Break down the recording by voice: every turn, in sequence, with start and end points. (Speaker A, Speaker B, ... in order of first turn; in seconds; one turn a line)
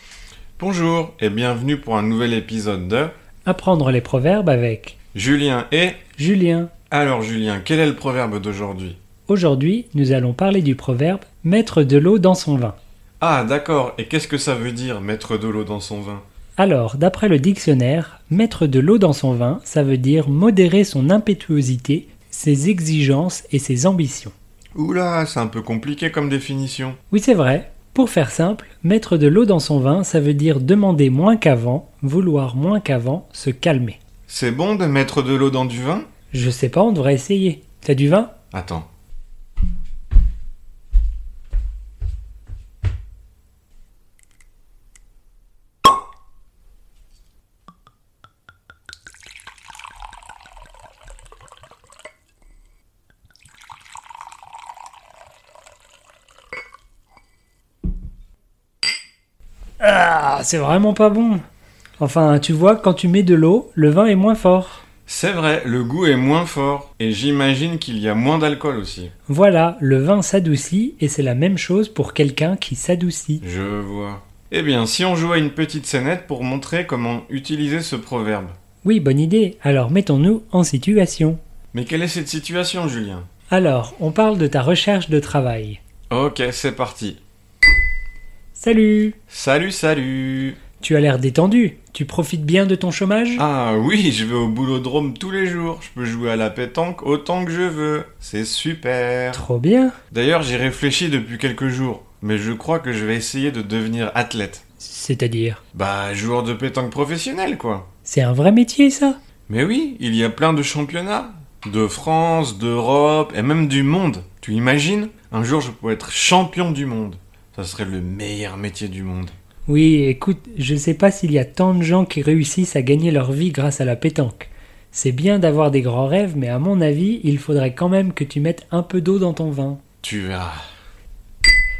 Speaker A: 0.6-3.1
Speaker B: 3.5-5.0
Speaker A: 5.1-6.0
Speaker B: 6.2-6.7
Speaker A: 6.9-9.0
Speaker B: 9.3-12.8
Speaker A: 13.2-16.2
Speaker B: 16.6-24.3
Speaker A: 24.7-27.0
Speaker B: 27.1-34.0
Speaker A: 34.3-36.1
Speaker B: 36.3-38.3
Speaker A: 38.5-38.9
Speaker B: 59.8-61.4
Speaker B: 62.0-64.8
Speaker A: 65.1-69.1
Speaker B: 69.3-73.4
Speaker A: 73.4-78.5
Speaker B: 78.8-81.4
Speaker A: 81.7-83.3
Speaker B: 83.5-85.8
Speaker A: 86.1-87.2
Speaker B: 88.5-89.2
Speaker A: 89.3-90.6
Speaker B: 90.8-93.5
Speaker A: 93.4-99.4
Speaker B: 99.3-100.0
Speaker A: 100.1-104.6
Speaker B: 104.8-105.6
Speaker A: 105.7-107.9
Speaker B: 108.1-109.2
Speaker A: 109.5-119.3
Speaker B: 119.7-129.8
Speaker A: 130.0-130.6